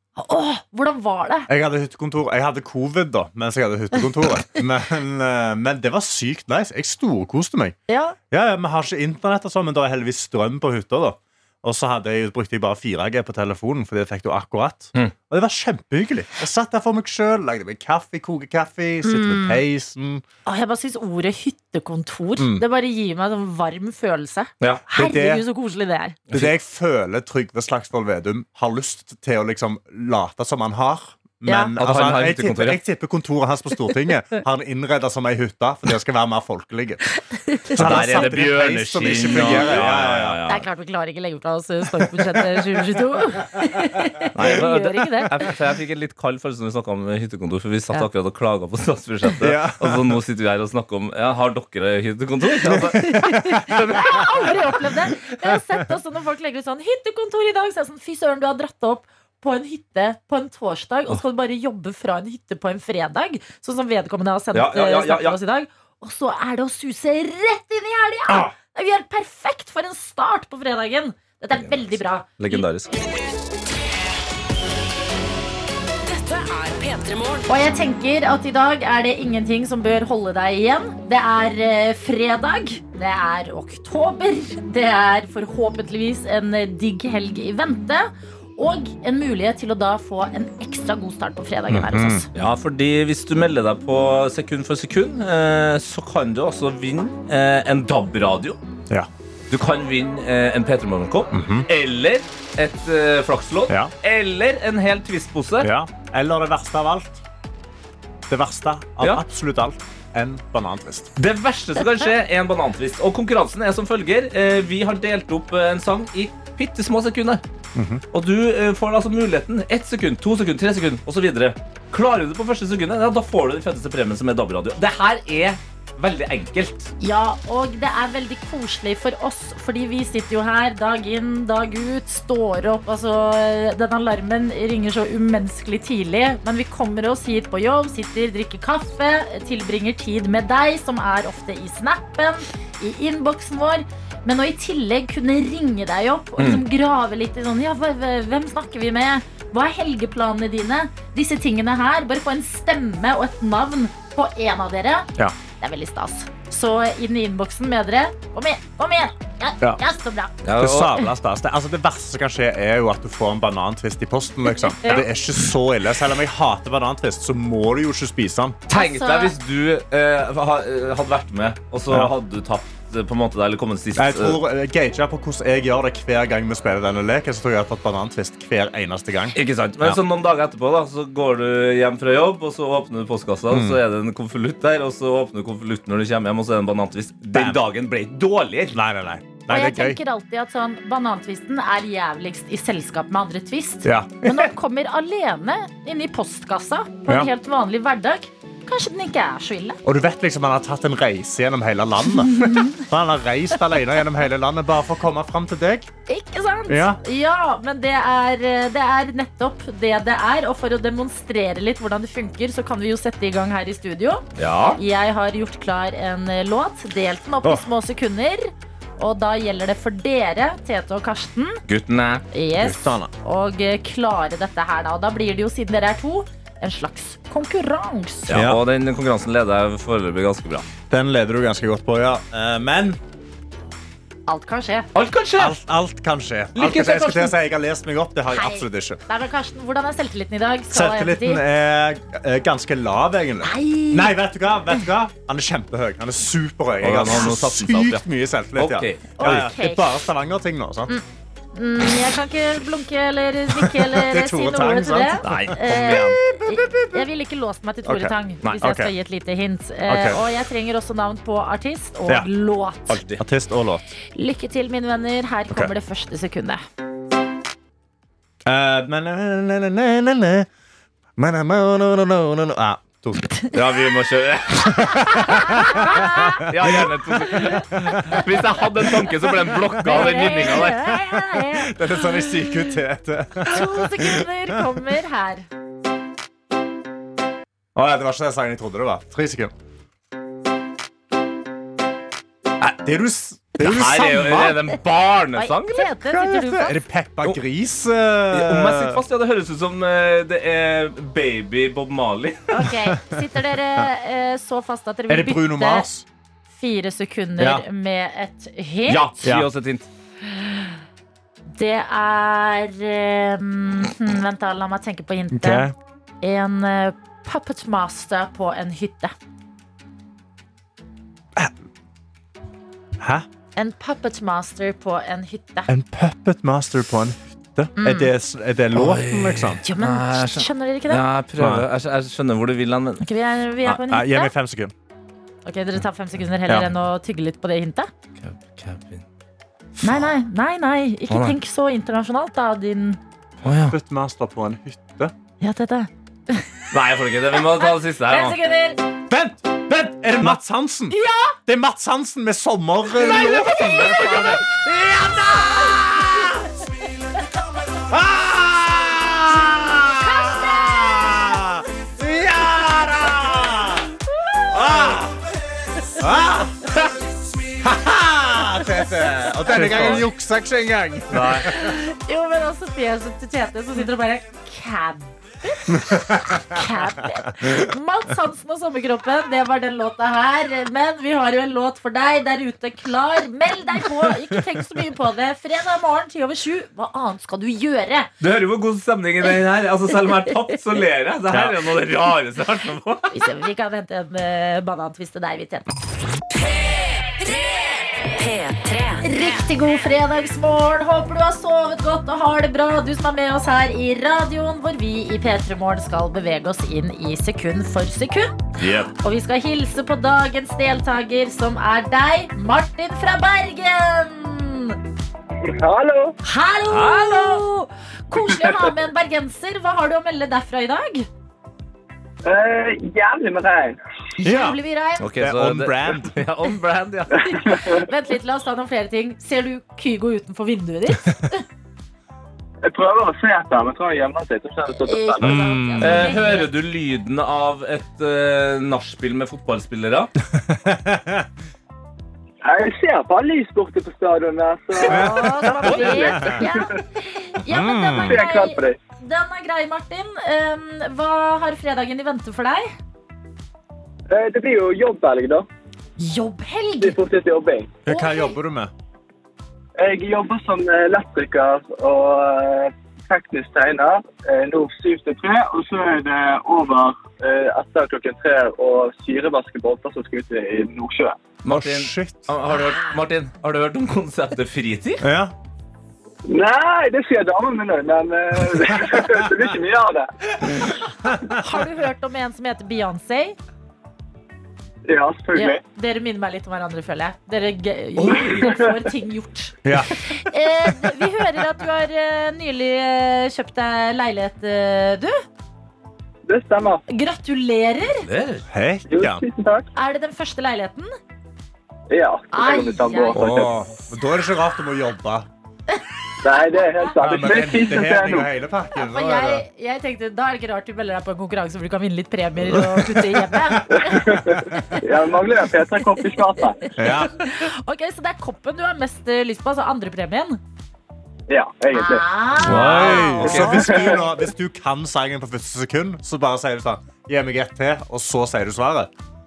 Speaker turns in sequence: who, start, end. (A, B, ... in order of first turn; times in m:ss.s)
0:00.2-0:01.5 A
0:01.5-0:07.8 B
0:07.9-0:08.2 A
0:08.3-0:20.2 B
0:19.0-0:19.6 A
0:20.5-0:26.2 A
0:22.4-0:22.6 B
0:24.9-0:25.4 B
0:26.3-0:37.0 B
0:31.4-0:31.7 A
0:31.8-0:32.8 C
0:37.5-0:38.2 A
0:37.7-0:40.4 B
0:37.7-0:40.7 C
0:39.3-0:39.7 A
0:40.5-0:45.3 A
0:44.3-0:54.6 C
0:49.4-0:50.2 B
0:52.8-1:12.6 A
1:04.5-1:05.4 C
1:11.6-1:13.0 C
1:16.1-1:17.5 D
1:17.5-1:32.3 A
1:31.7-1:32.2 B
1:32.4-1:38.6 C
1:39.5-1:45.7 C
1:41.3-1:41.7 B
1:45.6-1:47.2 B
1:48.3-1:51.1 B
1:51.2-1:57.4 C
1:57.8-1:58.0 B
1:58.1-2:06.9 C
2:07.0-2:40.4 A
2:26.4-2:26.6 C
2:40.4-2:40.9 C
2:40.6-2:48.6 B
2:44.6-2:45.0 A
2:48.7-2:54.4 C
2:48.7-2:49.3 A
2:51.9-2:52.1 B
2:54.0-3:00.0 B
2:59.4-3:08.8 C
3:03.5-3:03.8 B
3:08.7-3:10.0 B
3:09.5-3:19.8 A
3:13.8-3:14.5 B
3:19.8-3:25.9 B
3:22.1-3:22.8 A
3:26.1-3:41.6 A
3:26.7-3:27.0 B
3:34.4-3:34.8 C
3:41.7-3:42.2 C
3:42.3-3:48.3 A
3:42.6-3:43.1 B
3:48.3-3:50.7 C
3:48.3-3:48.6 B
3:50.9-3:53.0 B
3:54.3-3:54.9 A
3:55.0-3:55.6 C
3:55.4-3:59.0 B
3:56.6-3:57.3 C
3:58.3-4:01.4 A
4:00.7-4:11.0 B
4:03.4-4:04.1 A
4:06.8-4:08.0 C
4:08.6-4:09.3 C
4:09.2-4:09.9 A
4:11.6-4:23.0 A
4:13.6-4:17.1 B
4:15.2-4:16.2 C
4:17.8-4:18.9 B
4:19.9-4:20.2 B
4:22.9-4:23.2 C
4:23.2-4:23.9 B
4:24.2-4:26.6 A
4:28.5-4:30.5 B
4:31.2-4:33.5 B
4:33.5-4:40.9 C
4:34.7-4:38.2 B
4:35.0-4:36.4 A
4:37.3-4:38.2 A
4:39.5-4:44.6 B
4:39.8-4:42.5 A
4:43.5-4:45.5 A
4:47.8-4:49.5 B
4:52.8-4:54.6 B
4:53.6-4:55.9 C
4:55.4-4:56.8 A
4:56.0-4:59.0 B
4:58.3-5:02.5 C
5:02.5-5:05.9 A
5:05.1-5:06.0 B
5:06.6-5:09.2 A
5:07.4-5:07.6 B
5:08.9-5:09.9 C
5:09.2-5:09.5 B
5:10.2-5:10.8 A
5:11.5-5:15.7 A
5:15.3-5:15.8 B
5:16.2-5:19.1 A
5:23.0-5:23.3 B
5:23.6-5:25.7 A
5:25.7-5:29.6 B
5:27.8-5:28.1 A
5:28.7-5:33.0 C
5:29.6-5:31.0 A
5:31.4-5:31.7 B
5:33.0-5:34.3 A
5:33.6-5:34.7 B
5:35.5-5:37.9 A
5:38.2-5:39.0 C
5:39.8-5:43.0 A
5:41.1-5:41.4 C
5:43.4-5:43.8 C
5:43.7-5:45.1 B
5:45.4-5:46.5 A
5:46.7-5:48.4 C
5:47.4-5:48.8 A
5:49.1-5:56.5 B
5:50.9-5:51.4 A
5:53.0-5:54.4 A
5:55.5-5:55.8 A
5:57.7-6:03.9 B
6:00.0-6:00.6 A
6:04.5-6:05.2 B
6:06.0-6:06.8 B
6:07.6-6:11.8 B
6:09.5-6:10.1 C
6:11.1-6:11.5 C
6:11.4-6:28.1 A
6:15.7-6:16.6 B
6:28.2-6:33.1 C
6:31.3-6:31.6 B
6:33.1-6:35.8 A
6:37.2-6:39.1 D
6:39.0-6:48.4 A
6:48.6-6:48.9 C
6:49.0-6:54.8 A
6:55.4-6:56.2 E
6:56.2-7:01.1 A
6:56.7-6:57.4 C
7:02.2-7:03.8 E
7:04.2-7:05.1 A
7:04.2-7:04.6 B
7:05.0-7:07.4 C
7:05.2-7:06.2 B
7:07.2-7:11.4 A
7:07.3-7:07.8 E
7:12.6-7:15.4 E
7:14.9-7:16.5 A
7:15.2-7:16.1 B
7:15.8-7:20.1 C
7:20.3-7:21.3 B
7:22.4-7:26.8 E
7:24.8-7:32.7 A
7:24.9-7:26.4 B
7:27.5-7:28.2 B
7:28.0-7:28.8 E
7:34.1-7:35.5 E
7:36.0-7:37.0 A
7:36.8-7:37.8 E
7:37.9-7:38.7 B
7:37.9-7:38.4 A
7:39.8-7:51.2 E
7:51.4-7:55.0 C
7:51.5-7:52.3 B
7:52.5-7:52.9 A
7:55.0-7:55.3 B
7:56.3-8:00.1 E
7:58.9-7:59.3 B
8:01.3-8:03.4 A
8:04.9-8:05.6 E
8:05.4-8:15.2 A
8:08.0-8:08.5 C
8:09.6-8:09.9 B
8:16.3-8:16.8 E
8:16.9-8:18.1 A
8:18.0-8:18.5 C
8:18.5-8:19.2 B
8:18.9-8:19.7 E
8:19.8-8:20.9 A
8:21.9-8:23.5 E
8:22.3-8:23.2 A
8:23.2-8:25.3 B
8:26.2-8:28.3 E
8:27.0-8:29.4 B
8:28.7-8:34.8 A
8:32.5-8:34.2 B
8:33.7-8:36.7 E
8:36.8-8:37.1 B
8:36.8-8:40.4 A
8:41.3-8:42.1 E
8:41.7-8:44.0 A
8:42.4-8:48.9 B
8:42.4-8:43.6 C
8:43.3-8:44.0 E